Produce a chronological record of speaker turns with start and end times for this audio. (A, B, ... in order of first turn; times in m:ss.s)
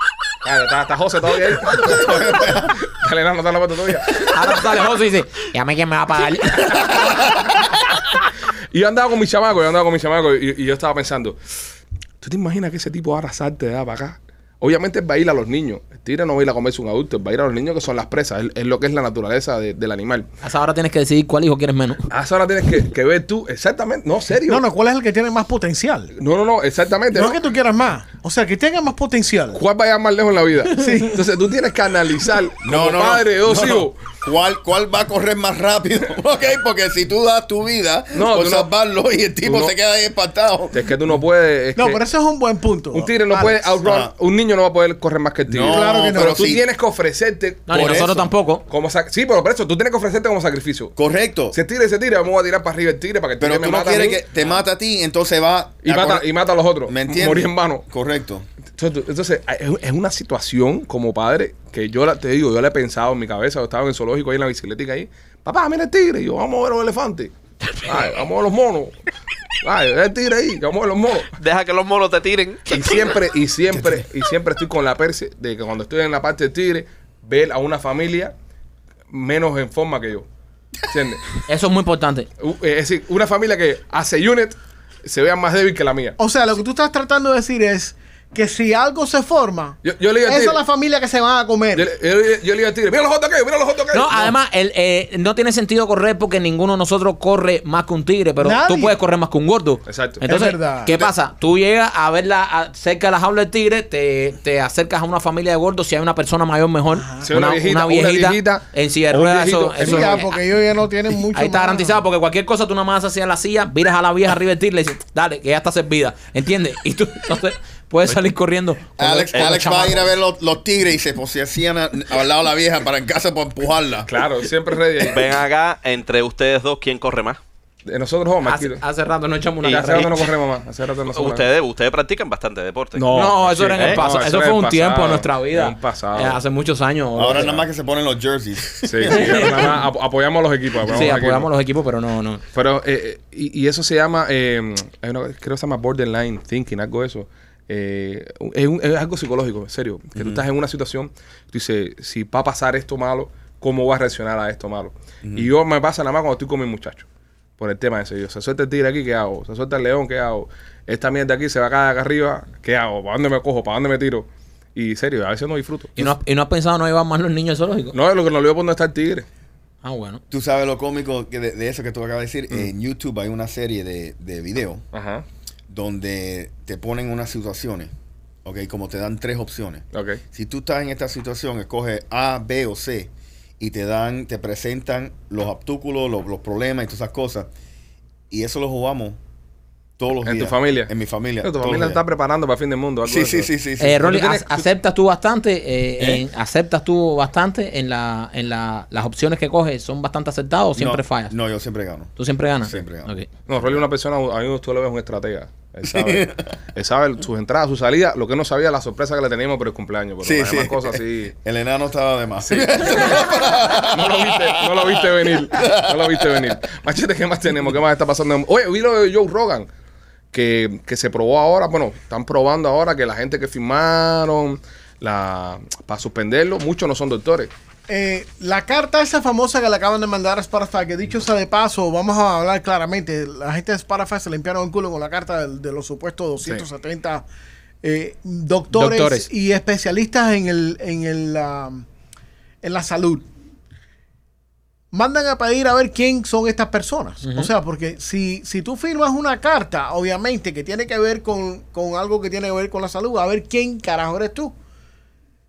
0:00.4-0:04.4 A
0:01.8-0:02.8 B
0:04.2-0:06.9 C
0:07.1-0:07.7 A
0:08.7-0:11.4 A
0:12.2-0:20.3 A
0:20.4-0:22.0 C
0:22.1-0:24.6 A
0:24.5-0:26.1 D
0:26.2-0:27.4 A
0:27.2-0:29.6 D
0:29.5-0:34.0 A
0:30.8-0:31.2 D
0:32.6-0:41.0 B
0:38.1-0:38.7 A
0:39.4-0:39.7 A
0:40.7-0:42.0 A
0:41.8-0:43.7 D
0:42.9-0:50.9 A
0:43.8-0:44.1 B
0:45.5-0:46.6 B
0:45.7-0:46.5 D
0:47.7-0:48.6 C
0:47.7-0:48.2 B
0:51.0-0:51.6 B
0:51.5-0:54.4 A
0:53.4-0:56.3 B
0:55.8-0:57.8 A
0:56.9-0:58.5 B
0:58.8-1:07.3 A
1:07.8-1:08.9 A
1:09.6-1:11.4 A
1:11.4-1:13.1 E
1:12.7-1:18.3 A
1:19.1-1:20.3 A
1:20.9-1:21.3 A
1:21.5-1:22.3 C
1:22.4-1:26.2 A
1:26.2-1:31.9 D
1:29.8-1:30.6 A
1:31.7-1:34.3 A
1:33.9-1:50.3 C
1:38.4-1:39.0 D
1:39.9-1:40.2 A
1:40.2-1:41.1 D
1:46.9-1:47.3 D
1:47.2-1:50.2 A
1:49.8-1:52.0 D
1:51.3-2:00.1 C
1:59.0-2:04.1 B
2:04.1-2:05.3 A
2:05.0-2:07.4 E
2:07.9-2:08.8 A
2:08.4-2:10.3 C
2:09.7-2:11.5 A
2:11.1-2:13.1 E
2:13.0-2:16.4 A
2:13.1-2:17.6 C
2:13.7-2:14.1 E
2:17.2-2:19.8 B
2:18.8-2:21.5 A
2:19.1-2:19.8 C
2:20.8-2:22.4 C
2:22.5-2:37.1 A
2:30.2-2:30.4 B
2:35.2-2:35.5 B
2:37.6-2:46.2 A
2:46.0-2:48.0 C
2:47.9-2:49.3 A
2:49.8-2:50.2 C
2:50.3-2:54.8 B
2:54.9-2:55.2 A
2:55.7-2:57.9 B
2:58.4-3:07.5 B
2:59.9-3:00.2 A
3:08.3-3:09.2 B
3:10.0-3:12.0 B
3:10.2-3:10.9 A
3:11.4-3:14.7 A
3:13.1-3:14.1 B
3:13.8-3:21.3 C
3:16.0-3:16.2 B
3:20.8-3:22.1 B
3:22.2-3:23.3 C
3:22.7-3:23.8 B
3:23.5-3:31.3 A
3:25.8-3:26.5 B
3:30.2-3:36.6 B
3:32.4-3:39.7 A
3:40.3-3:47.5 A
3:47.9-3:57.2 D
3:57.8-4:01.8 D
3:58.7-3:59.3 C
4:02.6-4:03.3 D
4:04.9-4:14.5 D
4:07.2-4:07.5 C